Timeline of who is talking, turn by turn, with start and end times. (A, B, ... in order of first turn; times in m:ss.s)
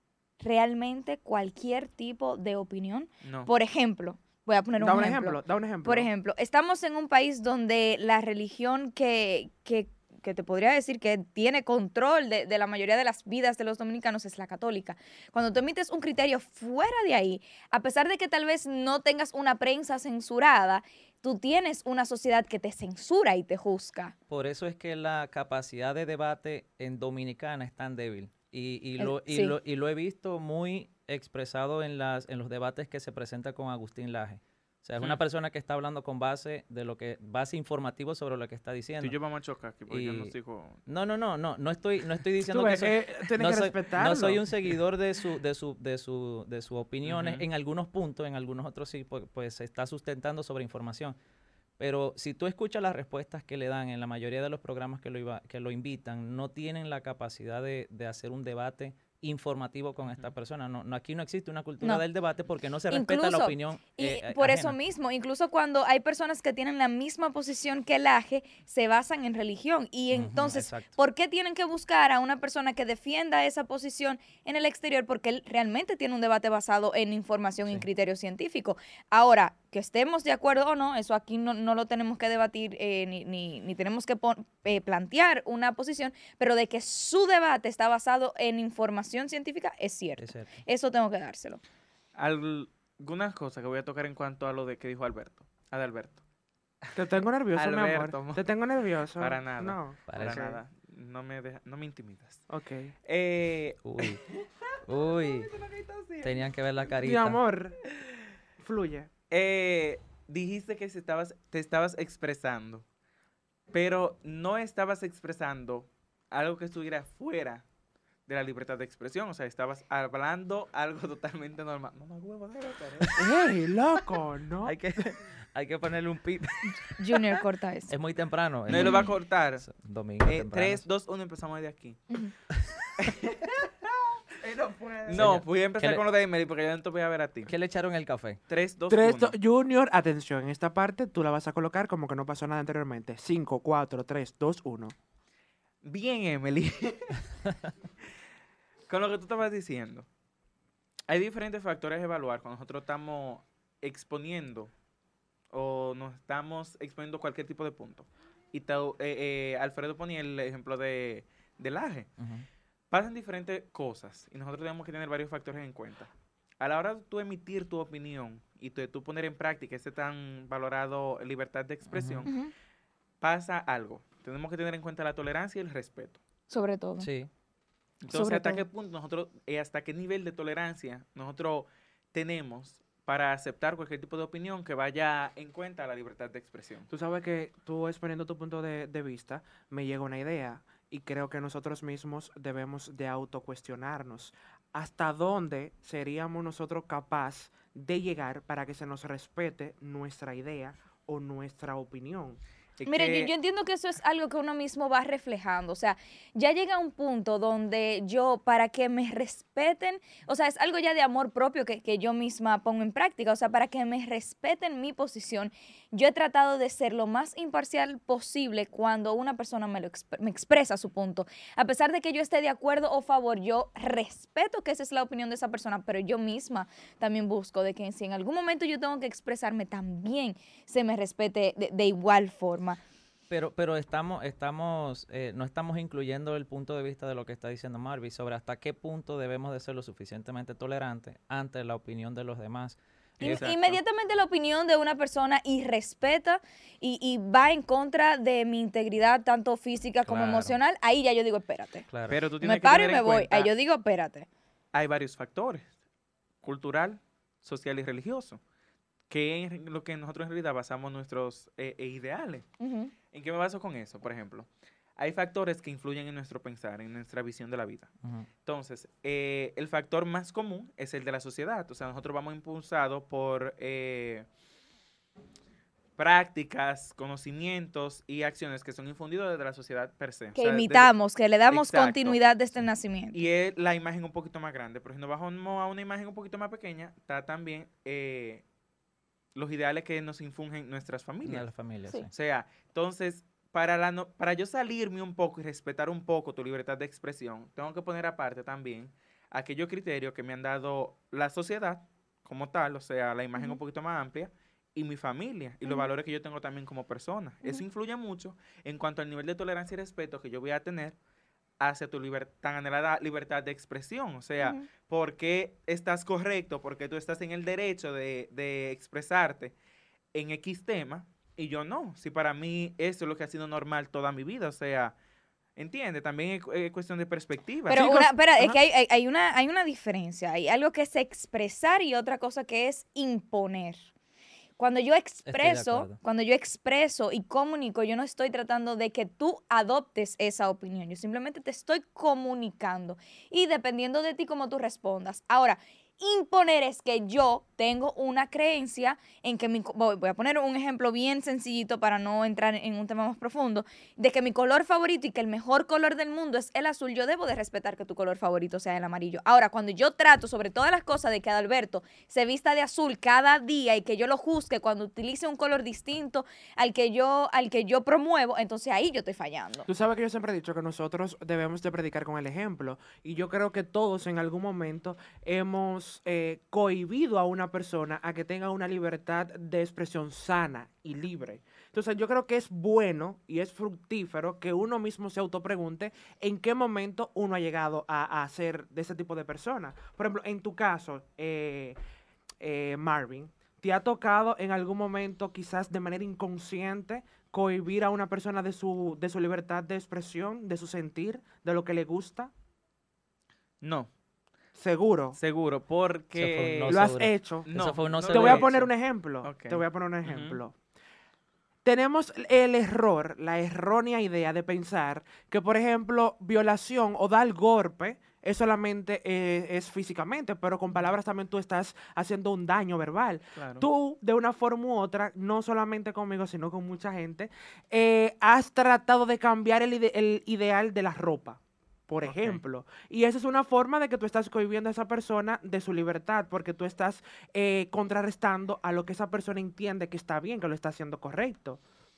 0:00.4-0:24.1 A
0:03.2-0:03.5 B
0:04.8-0:06.1 C
0:24.3-0:39.2 D
0:29.0-0:29.6 A
0:39.0-0:40.8 B
0:39.9-0:40.3 D
0:40.8-0:51.2 D
0:42.4-0:44.4 C
0:47.0-0:47.4 B
0:51.8-1:04.8 D
1:00.0-1:00.3 B
1:02.9-1:31.6 A
1:10.1-1:10.9 D
1:30.2-1:30.5 D
1:32.2-1:36.2 B
1:36.9-1:40.6 C
1:37.5-1:38.4 B
1:39.2-1:42.4 B
1:40.1-1:40.4 D
1:42.5-1:42.9 C
1:43.0-1:44.2 B
1:43.8-1:44.2 D
1:44.8-1:45.5 D
1:45.2-1:46.5 B
1:46.2-1:47.4 D
1:47.0-1:47.8 C
1:48.6-1:49.1 C
1:49.3-1:52.8 B
1:53.7-1:57.6 B
1:58.3-2:03.2 B
2:03.2-2:04.8 C
2:04.6-2:06.9 D
2:07.0-2:07.9 A
2:07.9-2:10.8 D
2:08.7-2:09.6 B
2:08.8-2:09.1 A
2:10.2-2:12.1 B
2:13.0-2:13.6 B
2:14.4-2:17.5 B
2:14.8-2:15.3 C
2:15.1-2:16.0 D
2:17.5-2:18.4 D
2:18.5-2:19.3 B
2:18.9-2:24.9 C
2:25.8-2:27.2 B
2:28.9-2:30.1 B
2:31.1-2:34.7 B
2:35.5-2:42.1 B
2:42.2-2:42.4 D
2:42.9-2:52.3 B
2:51.9-2:52.3 D
2:52.2-2:52.5 A
2:53.2-2:56.2 B
2:56.5-2:57.1 A
2:57.0-2:57.3 D
2:58.0-3:06.9 B
2:58.1-2:58.6 A
3:06.9-3:22.4 C
3:22.8-3:23.3 B
3:22.8-3:52.8 A
3:53.3-4:03.6 D
4:03.2-4:03.8 B
4:03.2-4:11.8 A
4:10.1-4:10.6 D
4:11.9-4:12.2 D
4:12.1-4:13.5 B
4:12.4-4:14.3 A
4:14.7-4:15.7 B
4:16.4-4:18.4 B
4:19.1-4:22.5 B
4:22.6-4:22.9 A
4:23.1-4:27.9 B
4:28.4-4:34.3 B
4:36.0-4:40.9 B
4:40.3-4:43.2 A
4:41.5-4:42.2 B
4:43.1-4:48.4 B
4:49.3-4:51.5 B
4:51.2-4:52.1 D
4:52.1-5:11.0 B
5:11.6-5:19.5 B
5:14.4-5:14.7 A
5:20.1-5:24.9 B
5:25.6-5:28.0 B
5:27.7-5:33.8 A
5:27.7-5:28.6 C
5:34.6-6:09.6 A
5:35.3-5:36.0 D
6:09.7-6:31.8 C
6:32.4-6:42.3 C
6:43.6-6:43.9 B
6:44.5-6:45.2 C
6:45.2-6:46.8 B
6:46.1-6:48.5 D
6:46.7-6:47.5 C
6:47.4-6:48.7 B
6:48.1-6:50.6 C
6:49.2-6:50.4 B
6:51.6-7:21.6 C
7:03.3-7:03.7 B
7:12.0-7:12.4 B